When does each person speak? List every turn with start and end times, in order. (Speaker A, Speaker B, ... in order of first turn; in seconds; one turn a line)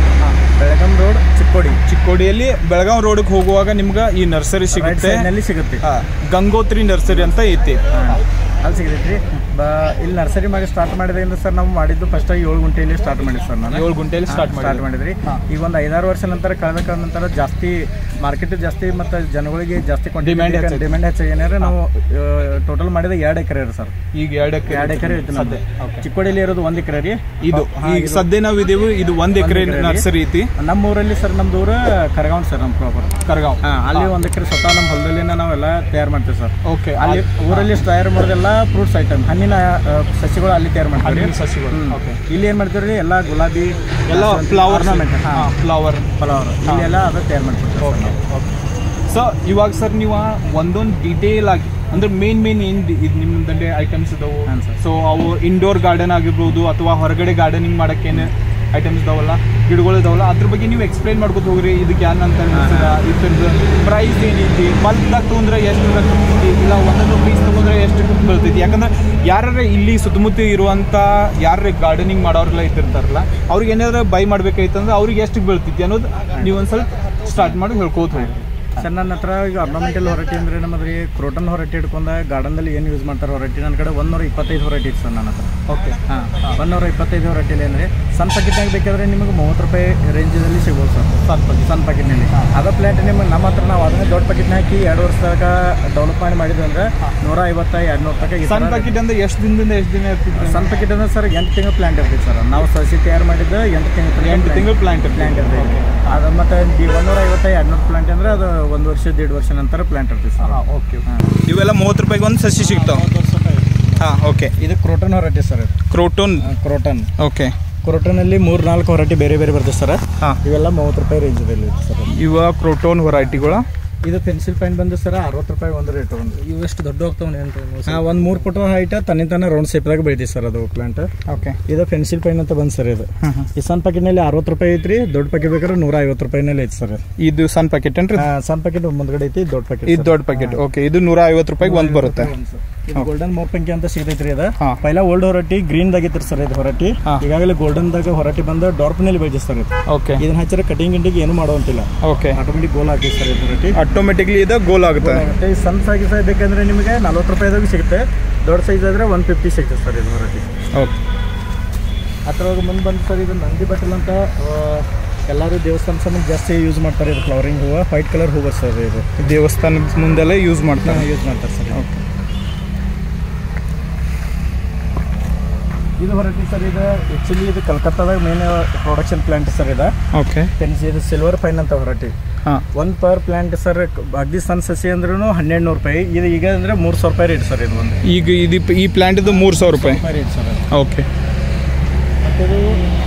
Speaker A: 0.4-1.8
Speaker B: 1.9-5.2
Speaker A: 4.7-5.8
Speaker B: 5.8-8.1
Speaker A: 7.9-23.9
Speaker B: 13.7-15.4
Speaker B: 20.2-21.0
Speaker B: 24.1-26.1
Speaker A: 24.7-28.3
Speaker B: 27.4-30.5
Speaker A: 29.3-45.5
Speaker B: 33.2-34.1
Speaker B: 36.6-37.8
Speaker B: 41.0-42.2
Speaker B: 44.1-46.1
Speaker A: 46.2-48.2
Speaker B: 46.6-46.9
Speaker B: 47.8-78.8
Speaker A: 54.5-54.8
Speaker A: 62.5-63.0
Speaker A: 76.3-76.6
Speaker A: 78.1-85.5
Speaker B: 85.7-86.6
Speaker A: 86.1-99.0
Speaker B: 91.2-91.7
Speaker B: 98.4-100.7
Speaker A: 100.3-111.3
Speaker B: 104.2-106.1
Speaker B: 110.4-113.0
Speaker A: 112.6-114.0
Speaker B: 114.0-114.5
Speaker A: 114.6-115.7
Speaker B: 115.9-116.5
Speaker A: 116.4-117.1
Speaker B: 117.2-117.5
Speaker A: 117.8-122.1
Speaker B: 122.1-123.7
Speaker A: 123.2-126.4
Speaker C: 126.3-128.4
Speaker A: 127.8-131.1
Speaker B: 131.3-131.6
Speaker A: 131.7-137.0
Speaker B: 133.2-133.5
Speaker B: 137.2-138.2
Speaker A: 138.2-140.6
Speaker B: 139.9-142.3
Speaker A: 141.6-153.8
Speaker B: 149.9-150.2
Speaker B: 152.0-152.4
Speaker B: 153.7-155.2
Speaker A: 155.0-160.5
Speaker A: 162.2-169.1
Speaker B: 169.2-171.1
Speaker A: 170.8-171.8
Speaker B: 171.7-172.0
Speaker A: 176.0-179.9
Speaker B: 180.1-180.5
Speaker A: 180.6-182.1
Speaker A: 182.7-188.0
Speaker B: 188.0-190.0
Speaker A: 189.3-190.7
Speaker B: 190.7-191.1
Speaker A: 192.2-192.7